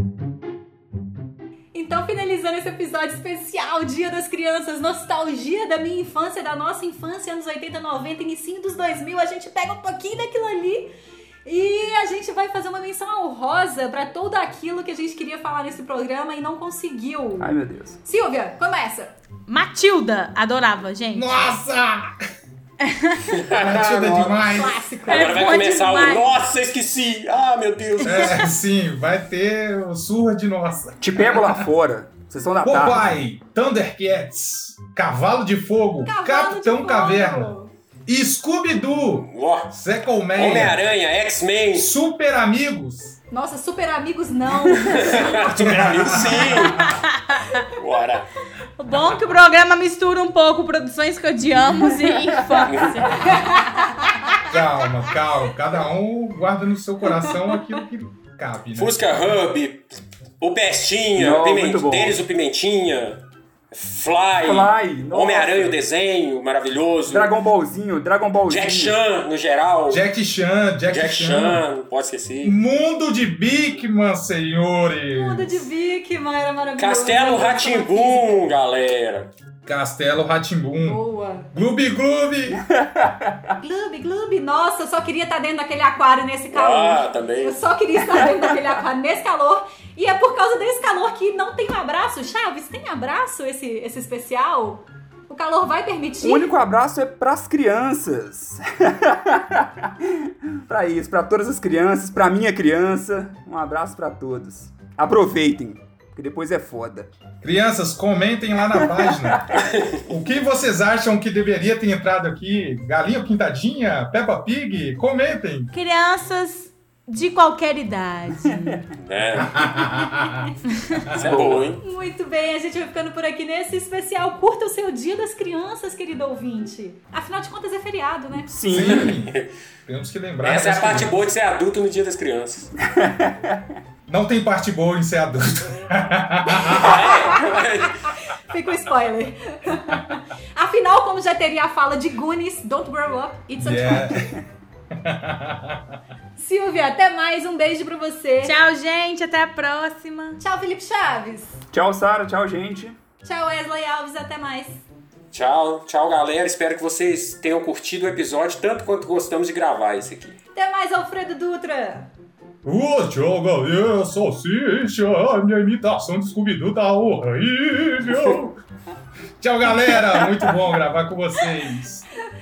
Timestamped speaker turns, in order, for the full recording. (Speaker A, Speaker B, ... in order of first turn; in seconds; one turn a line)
Speaker A: 1.7-10.9
Speaker A: 11.5-19.1
Speaker B: 17.4-18.0
Speaker C: 19.5-21.4
Speaker D: 21.1-22.2
Speaker C: 22.8-23.3
Speaker E: 23.3-24.4
Speaker D: 23.5-24.8
Speaker A: 24.4-25.5
Speaker C: 25.1-26.3
Speaker E: 25.1-28.4
Speaker D: 28.0-31.7
Speaker C: 28.1-28.4
Speaker B: 31.0-33.2
Speaker D: 32.6-37.5
Speaker A: 36.0-37.7
Speaker D: 38.1-40.8
Speaker E: 39.2-39.7
Speaker E: 40.4-41.9
Speaker D: 41.7-43.2
Speaker A: 43.3-45.3
Speaker E: 44.9-46.8
Speaker D: 45.1-47.0
Speaker C: 46.7-47.6
Speaker E: 47.8-48.3
Speaker C: 48.8-54.0
Speaker E: 52.7-53.2
Speaker A: 53.2-54.1
Speaker D: 54.5-59.4
Speaker A: 57.2-57.6
Speaker E: 58.8-63.2
Speaker B: 61.2-62.2
Speaker E: 63.7-67.3
Speaker B: 64.4-65.8
Speaker B: 67.1-69.0
Speaker E: 68.5-70.0
Speaker D: 69.9-71.6
Speaker E: 70.9-72.6
Speaker D: 72.4-75.7
Speaker A: 75.1-78.5
Speaker E: 76.8-79.3
Speaker D: 79.7-82.6
Speaker A: 80.8-81.5
Speaker B: 82.5-83.5
Speaker A: 83.6-96.6
Speaker E: 86.5-87.6
Speaker B: 96.2-107.1
Speaker D: 107.4-115.7
Speaker B: 108.8-109.4
Speaker E: 109.5-110.0
Speaker C: 115.7-118.9
Speaker E: 119.0-119.8
Speaker D: 119.3-121.7
Speaker C: 120.7-121.2
Speaker E: 121.1-121.8
Speaker A: 121.8-128.5
Speaker B: 128.5-129.2
Speaker D: 128.7-131.2
Speaker E: 130.4-132.7
Speaker B: 132.9-133.8
Speaker D: 134.1-137.3
Speaker E: 136.7-138.0
Speaker A: 137.3-144.2
Speaker D: 143.6-144.4
Speaker D: 144.9-146.0
Speaker A: 146.4-148.6
Speaker C: 148.4-150.4
Speaker A: 150.4-151.6
Speaker B: 151.7-153.0
Speaker A: 153.2-154.8
Speaker E: 155.3-160.4
Speaker A: 160.6-162.1
Speaker D: 162.6-168.6
Speaker D: 169.4-172.1
Speaker B: 170.1-170.4